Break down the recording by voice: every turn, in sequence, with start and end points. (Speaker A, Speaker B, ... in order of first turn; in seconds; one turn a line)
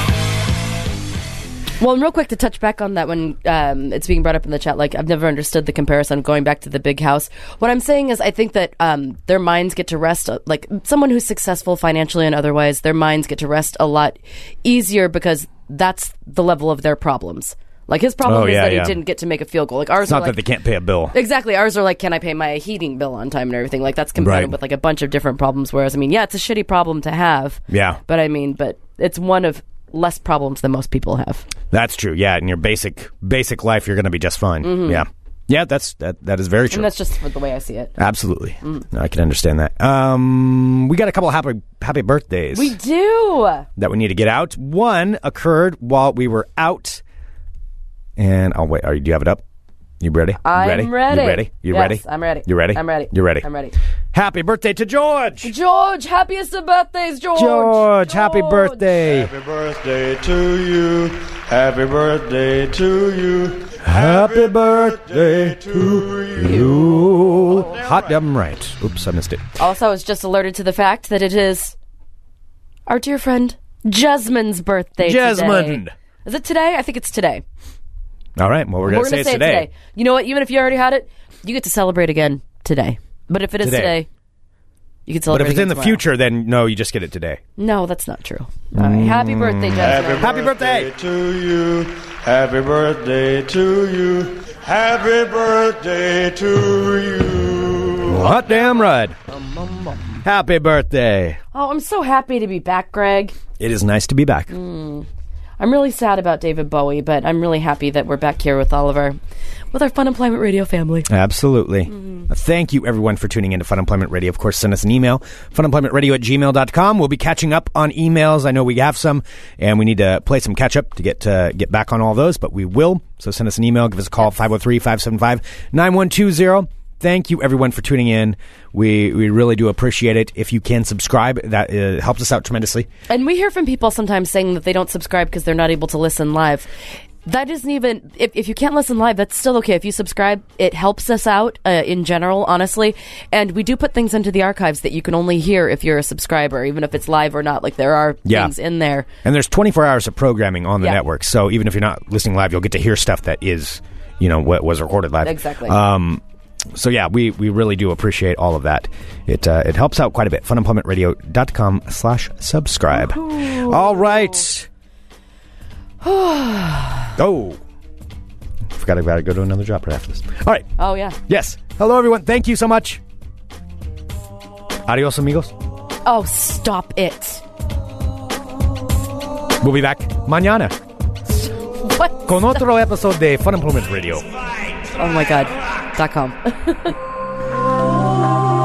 Speaker A: 1.8-20.4
Speaker B: 18.2-19.0
Speaker B: 20.0-21.1
Speaker A: 21.1-31.4
Speaker B: 24.2-24.5
Speaker B: 27.7-28.0
Speaker B: 31.7-36.9
Speaker A: 34.6-35.0
Speaker A: 36.7-37.9
Speaker B: 38.0-42.8
Speaker A: 42.5-43.7
Speaker B: 43.8-47.0
Speaker B: 48.2-49.4
Speaker B: 50.0-53.5
Speaker A: 50.4-53.7
Speaker B: 54.1-55.5
Speaker A: 55.4-58.9
Speaker B: 57.3-59.3
Speaker C: 59.0-68.0
Speaker B: 63.8-69.4
Speaker A: 69.6-71.8
Speaker A: 72.9-77.4
Speaker B: 75.0-75.9
Speaker B: 78.4-79.7
Speaker A: 78.9-84.1
Speaker B: 83.6-84.0
Speaker A: 85.1-86.0
Speaker B: 85.3-87.4
Speaker A: 87.6-90.4
Speaker B: 88.7-90.9
Speaker C: 89.8-98.3
Speaker B: 98.0-99.2
Speaker A: 98.3-100.2
Speaker B: 100.2-101.4
Speaker A: 101.5-103.3
Speaker B: 103.6-104.5
Speaker A: 104.5-105.1
Speaker A: 105.6-109.2
Speaker A: 109.7-111.1
Speaker B: 111.1-132.9
Speaker A: 111.9-112.2
Speaker A: 133.1-136.7
Speaker A: 137.2-149.1
Speaker B: 148.2-148.5
Speaker B: 149.2-156.2
Speaker A: 155.2-155.8
Speaker B: 156.7-164.7
Speaker A: 162.9-164.5
Speaker A: 166.0-167.1
Speaker B: 167.2-167.6
Speaker B: 168.7-170.7
Speaker A: 170.8-171.2
Speaker B: 171.3-173.0
Speaker B: 174.8-175.5
Speaker A: 176.0-177.4
Speaker B: 179.6-180.7
Speaker A: 181.4-182.6
Speaker B: 182.2-184.2
Speaker A: 185.0-186.9